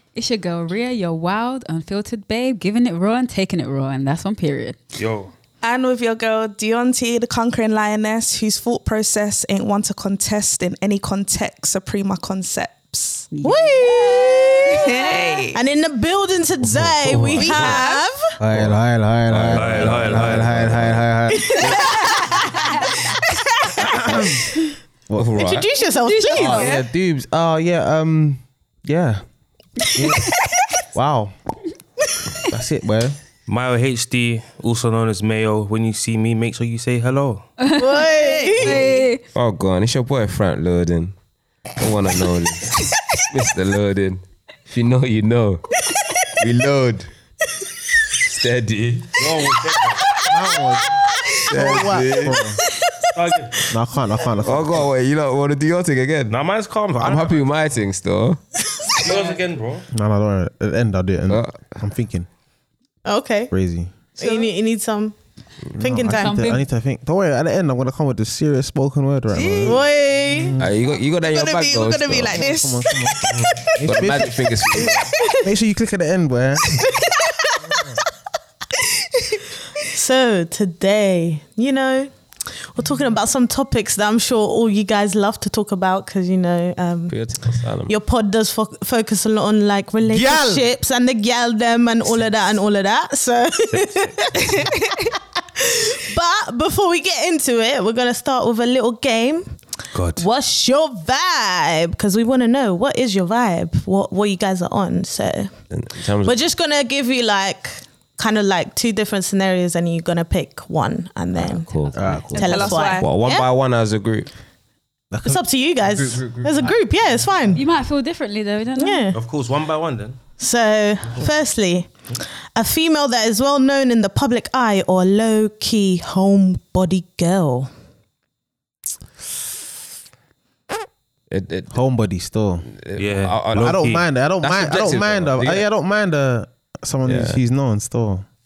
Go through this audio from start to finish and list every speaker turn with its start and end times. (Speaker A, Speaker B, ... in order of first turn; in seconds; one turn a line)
Speaker A: 0.1-4.8
Speaker B: 5.0-5.3
Speaker C: 5.6-13.3
Speaker A: 13.3-15.0
Speaker D: 13.4-14.9
Speaker C: 14.8-15.6
Speaker D: 15.5-18.3
Speaker E: 16.9-17.8
Speaker F: 17.0-17.8
Speaker C: 17.4-18.1
Speaker F: 18.4-21.8
Speaker E: 18.5-18.8
Speaker E: 19.3-21.1
Speaker B: 19.5-20.5
Speaker D: 21.4-22.1
Speaker E: 21.6-21.9
Speaker F: 23.8-25.4
Speaker E: 25.2-25.7
Speaker D: 25.4-26.7
Speaker A: 25.9-26.7
Speaker F: 26.4-29.2
Speaker C: 26.5-26.9
Speaker F: 29.9-30.3
Speaker F: 30.9-31.3
Speaker F: 32.4-33.2
Speaker B: 33.5-37.5
Speaker A: 37.6-39.2
Speaker D: 37.8-38.9
Speaker C: 38.5-38.8
Speaker E: 39.3-41.1
Speaker E: 41.8-45.6
Speaker E: 46.4-47.1
Speaker E: 48.2-49.2
Speaker B: 49.2-50.0
Speaker D: 50.2-50.5
Speaker F: 50.3-52.6
Speaker E: 51.5-52.4
Speaker B: 53.1-53.5
Speaker F: 53.7-54.9
Speaker E: 54.4-56.4
Speaker B: 56.3-57.5
Speaker E: 57.0-58.4
Speaker B: 59.0-59.9
Speaker F: 59.9-62.3
Speaker E: 61.3-61.8
Speaker D: 63.0-63.5
Speaker F: 63.5-64.0
Speaker D: 64.2-65.2
Speaker C: 64.2-64.4
Speaker F: 65.8-70.8
Speaker D: 65.8-66.4
Speaker A: 66.1-66.6
Speaker D: 69.7-70.5
Speaker E: 70.6-72.4
Speaker C: 71.2-73.2
Speaker F: 72.3-76.8
Speaker B: 73.3-73.5
Speaker E: 73.8-75.1
Speaker D: 79.9-87.2
Speaker E: 87.1-87.9
Speaker D: 87.9-94.6
Speaker F: 90.1-90.6
Speaker B: 93.7-94.1
Speaker C: 94.5-95.0
Speaker D: 95.6-99.5
Speaker B: 99.9-100.2
Speaker D: 100.2-105.5
Speaker E: 105.7-106.4
Speaker D: 106.2-111.8
Speaker E: 111.4-114.3
Speaker F: 111.9-112.8
Speaker D: 112.3-113.5
Speaker C: 112.5-113.1
Speaker F: 115.1-115.4
Speaker D: 115.2-117.6
Speaker E: 116.0-116.7
Speaker F: 116.0-117.5
Speaker A: 117.5-119.1
Speaker D: 118.8-119.2
Speaker B: 119.1-120.2
Speaker D: 120.4-121.9
Speaker D: 122.5-127.7
Speaker E: 131.3-131.8
Speaker F: 131.7-132.7
Speaker E: 132.7-133.8
Speaker B: 133.0-134.1
Speaker F: 133.6-138.3
Speaker E: 134.4-135.7
Speaker E: 137.1-137.4